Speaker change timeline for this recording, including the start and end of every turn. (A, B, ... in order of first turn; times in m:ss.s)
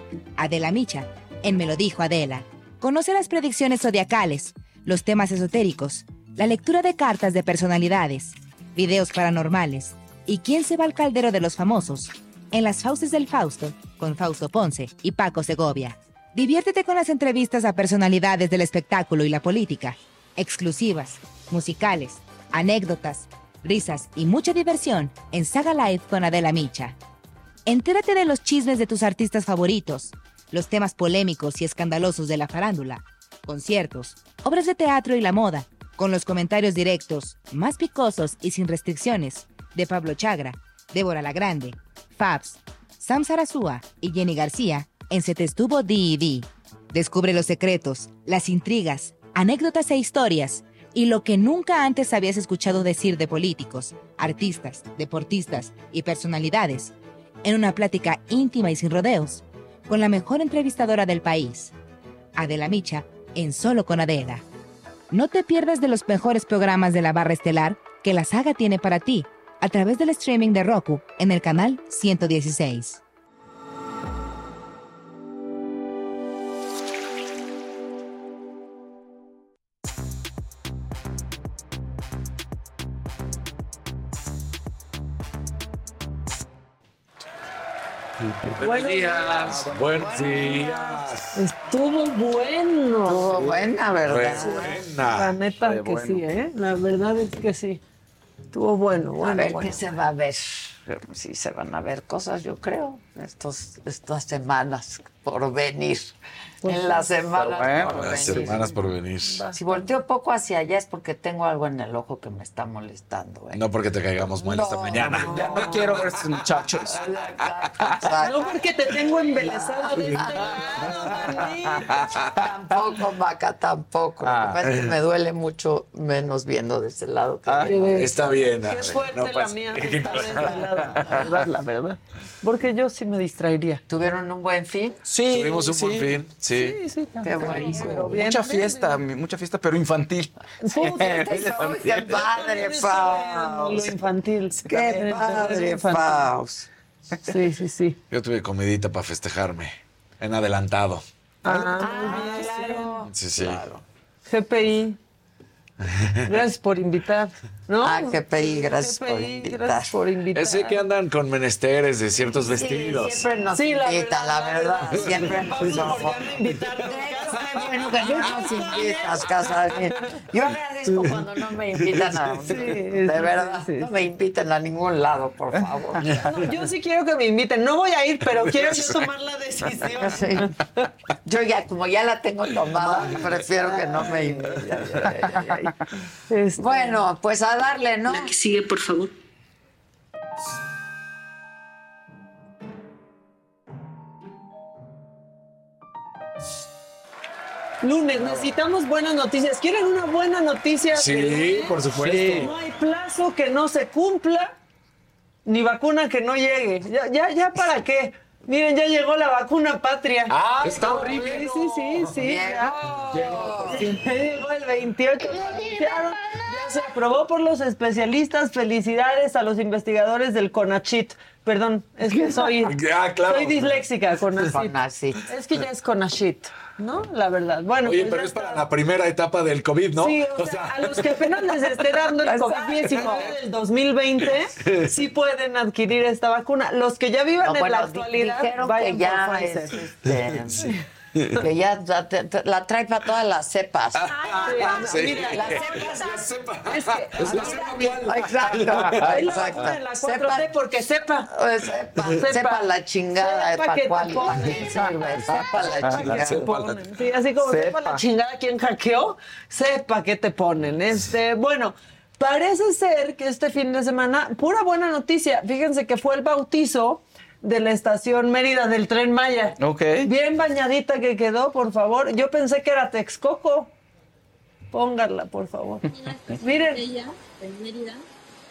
0:00.4-0:26.9 A
0:27.7-0:56.9 A
0:57.4-1:01.7 A
1:02.4-1:04.4 A
1:05.1-1:13.0 A
1:28.2-1:31.3 B
1:28.6-1:29.3 C
1:29.5-1:30.8 D
1:31.3-1:33.4 C
1:33.0-1:34.8 D
1:34.1-1:35.3 B
1:35.0-1:37.8 C
1:35.5-1:36.3 E
1:38.5-1:39.9 C
1:39.2-1:48.8 D
1:46.6-1:47.2 C
1:47.3-1:48.8 E
1:47.9-1:49.4 B
1:49.2-1:49.9 C
1:49.5-1:53.6 D
1:53.5-1:56.2 B
1:54.4-1:55.9 D
1:54.9-1:57.0 E
1:56.9-1:58.5 D
1:58.2-2:01.9 C
1:59.4-2:08.0 D
2:02.0-2:02.3 B
2:04.2-2:04.6 E
2:04.7-2:04.9 B
2:07.4-2:07.8 E
2:07.6-2:13.8 C
2:08.0-2:10.6 B
2:10.3-2:11.2 D
2:13.9-2:15.0 D
2:15.0-2:16.2 E
2:15.3-2:16.7 B
2:16.5-2:19.0 C
2:17.2-2:18.2 D
2:17.6-2:21.7 E
2:20.6-2:26.3 C
2:21.2-2:24.0 D
2:24.6-2:26.7 D
2:27.2-2:28.0 C
2:28.1-2:31.0 B
2:31.4-2:33.0 C
2:31.5-2:33.8 D
2:33.1-2:33.6 B
2:34.2-2:35.0 C
2:36.3-2:40.8 C
2:37.8-2:39.9 D
2:40.3-2:43.3 B
2:42.3-2:46.2 D
2:43.5-2:49.0 C
2:46.8-2:56.0 D
2:51.8-2:52.2 B
2:52.4-2:53.9 C
2:56.2-3:00.8 C
2:58.4-2:59.1 B
2:59.9-3:00.5 D
3:01.2-3:05.7 D
3:06.3-3:07.0 C
3:06.6-3:08.3 D
3:17.8-3:24.5 C
3:20.9-3:22.5 B
3:22.0-3:22.5 E
3:25.4-3:32.8 C
3:30.3-3:32.1 B
3:32.1-3:33.9 D
3:33.1-3:33.6 B
3:33.7-3:44.7 C
3:42.1-3:43.8 B
3:44.5-3:45.2 D
3:45.3-3:48.6 C
3:47.8-3:51.6 B
3:50.0-3:59.7 C
3:52.2-3:53.3 D
3:52.8-3:53.3 B
3:54.6-3:54.8 B
3:57.4-4:00.7 D
4:01.4-4:06.3 D
4:03.9-4:09.4 B
4:04.2-4:06.1 C
4:06.7-4:07.9 C
4:07.3-4:10.5 D
4:09.0-4:11.3 C
4:11.3-4:16.5 D
4:12.0-4:33.7 C
4:15.8-4:16.1 E
4:16.1-4:16.8 B
4:17.4-4:18.0 E
4:29.6-4:30.1 E
4:34.7-4:36.8 C
4:35.9-4:38.0 F